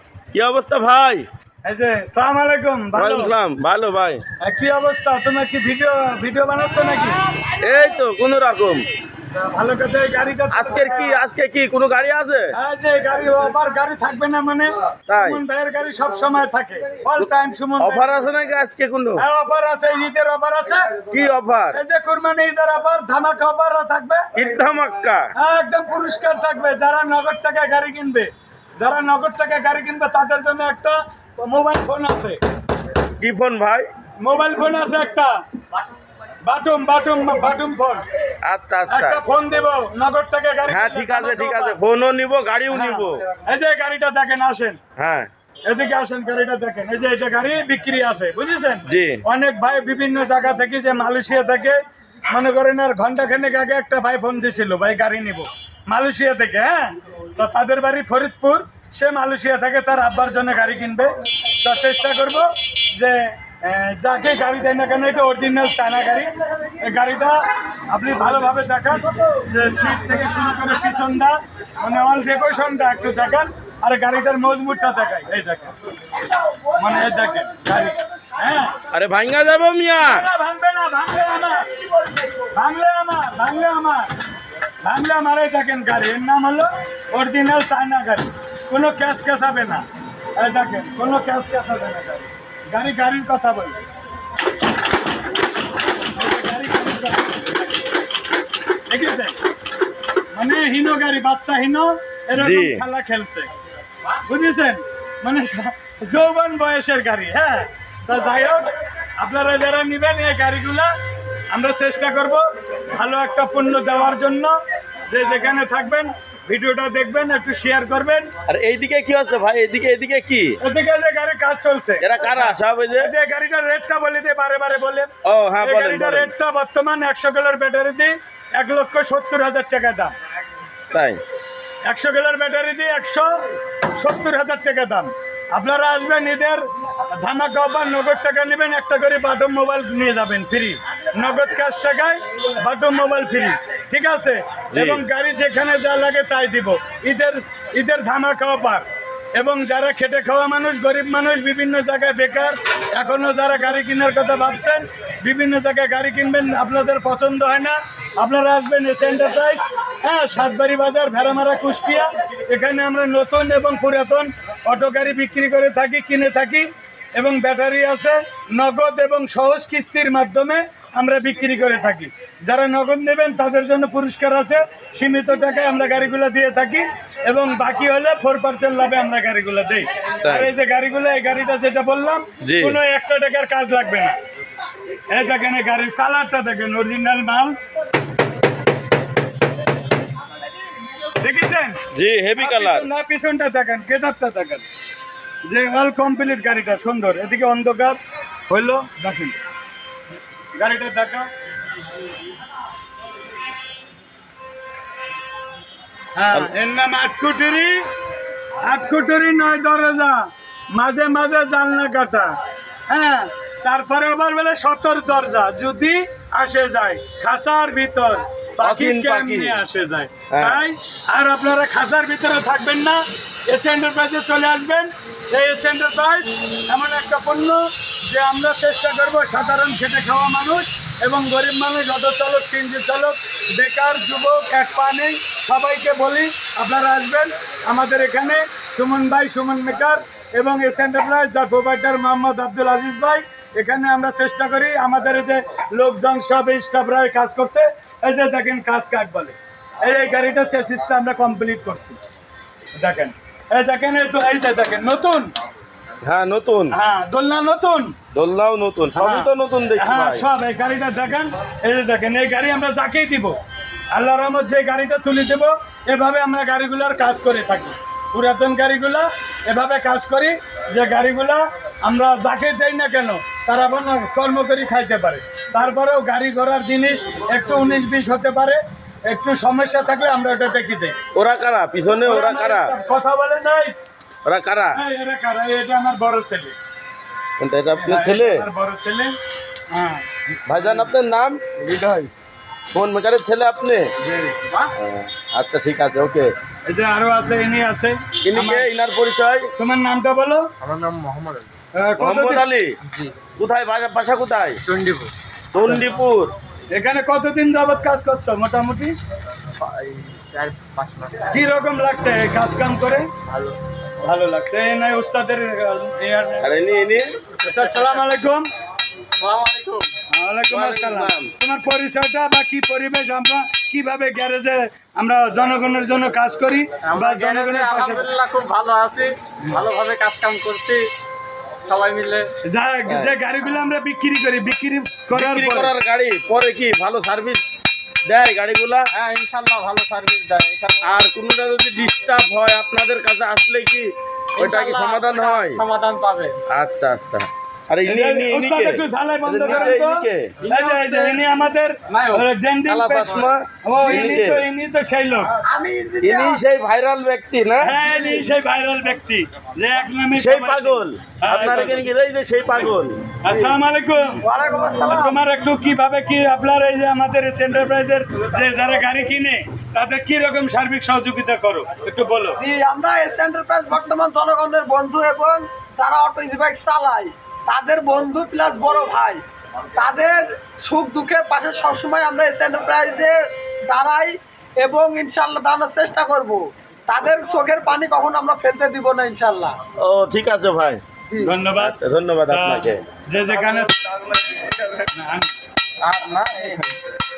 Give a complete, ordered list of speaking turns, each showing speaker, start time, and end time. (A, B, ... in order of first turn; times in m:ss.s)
0:00.3-0:01.3 A
0:01.6-0:03.3 B
0:02.9-0:04.2 A
0:04.4-0:07.2 B
0:07.6-0:08.8 A
0:09.4-0:11.2 B
0:10.5-0:12.5 A
0:12.5-0:18.1 B
0:15.1-0:15.4 A
0:17.8-0:19.2 A
0:19.2-0:21.0 B
0:21.1-0:21.8 A
0:21.7-0:24.3 B
0:24.4-0:25.3 A
0:25.4-0:32.4 B
0:33.2-0:33.9 A
0:34.2-0:35.4 B
0:36.4-0:38.1 B
0:38.4-0:39.2 A
0:38.9-0:41.8 B
0:40.7-0:43.2 A
0:42.7-0:44.8 B
0:45.0-0:45.3 A
0:45.7-1:15.8 B
0:48.9-0:49.2 A
1:16.7-1:18.8 B
1:18.9-1:20.2 A
1:20.0-1:21.8 B
1:22.4-1:24.1 B
1:24.8-1:29.8 B
1:30.4-1:33.8 B
1:36.1-1:37.6 B
1:38.9-1:39.4 B
1:40.3-1:43.5 B
1:42.4-1:42.8 A
1:44.2-1:50.9 B
1:51.5-1:54.6 B
1:55.1-1:58.3 B
1:58.5-2:00.6 A
2:00.6-2:10.2 B
2:02.0-2:03.1 A
2:05.2-2:06.3 A
2:10.9-2:11.2 A
2:11.8-2:13.3 B
2:14.0-3:04.2 B
2:24.7-2:25.0 A
3:00.2-3:00.5 A
3:02.4-3:02.8 A
3:05.1-3:07.6 B
3:11.2-3:11.8 B
3:11.9-3:12.9 A
3:12.4-3:14.6 B
3:15.5-3:19.4 B
3:20.6-3:21.3 B
3:26.2-3:27.9 B
3:28.6-3:32.4 B
3:32.9-4:12.0 B
3:38.6-3:39.6 A
3:40.3-3:40.7 A
4:12.8-4:15.3 B
4:16.0-4:16.8 A
4:16.7-4:18.0 B
4:18.1-4:20.3 A
4:19.0-4:23.4 B
4:23.9-4:41.0 B
4:41.2-4:42.8 A
4:42.0-4:43.8 B
4:44.2-4:44.8 A
4:44.8-4:46.6 B
4:47.4-4:48.5 A
4:47.7-4:49.2 B
4:49.7-4:50.1 B
4:50.5-4:51.5 A
4:51.8-4:52.1 C
4:52.7-4:53.9 A
4:54.2-4:54.7 C
4:54.8-4:56.3 A
4:56.7-4:58.7 B
4:58.2-4:59.5 A
4:59.6-5:00.5 B
5:00.6-5:01.5 C
5:01.8-5:02.4 B
5:02.0-5:02.8 A
5:03.4-5:04.6 A
5:04.6-5:05.1 C
5:05.5-5:06.3 A
5:06.7-5:09.0 B
5:09.6-5:11.3 C
5:11.3-5:13.1 B
5:13.3-5:13.6 C
5:14.0-5:16.5 B
5:16.4-5:17.1 A
5:17.4-5:18.5 B
5:17.5-5:17.8 C
5:19.2-5:19.9 C
5:20.1-5:28.1 B
5:20.5-5:21.3 A
5:26.9-5:30.9 C
5:31.7-5:32.3 C
5:32.4-5:35.7 B
5:32.9-5:33.2 A
5:35.1-5:37.4 A
5:38.1-5:38.9 A
5:38.9-5:41.0 C
5:40.8-5:45.6 A
5:44.4-5:46.4 C
5:46.5-5:50.4 A
5:47.8-5:55.4 B
5:50.4-5:52.3 C
5:52.7-5:54.5 A
5:55.5-5:56.4 D
5:56.0-5:57.8 A
5:57.6-6:01.9 B
6:00.2-6:03.0 A
6:03.2-6:04.2 B
6:04.2-6:05.2 D
6:04.8-6:12.4 B
6:12.4-6:29.6 D
6:29.8-6:30.8 A
6:31.2-6:31.8 B
6:31.6-6:32.8 A
6:32.3-6:33.8 B
6:34.9-6:35.3 B
6:35.8-6:36.8 C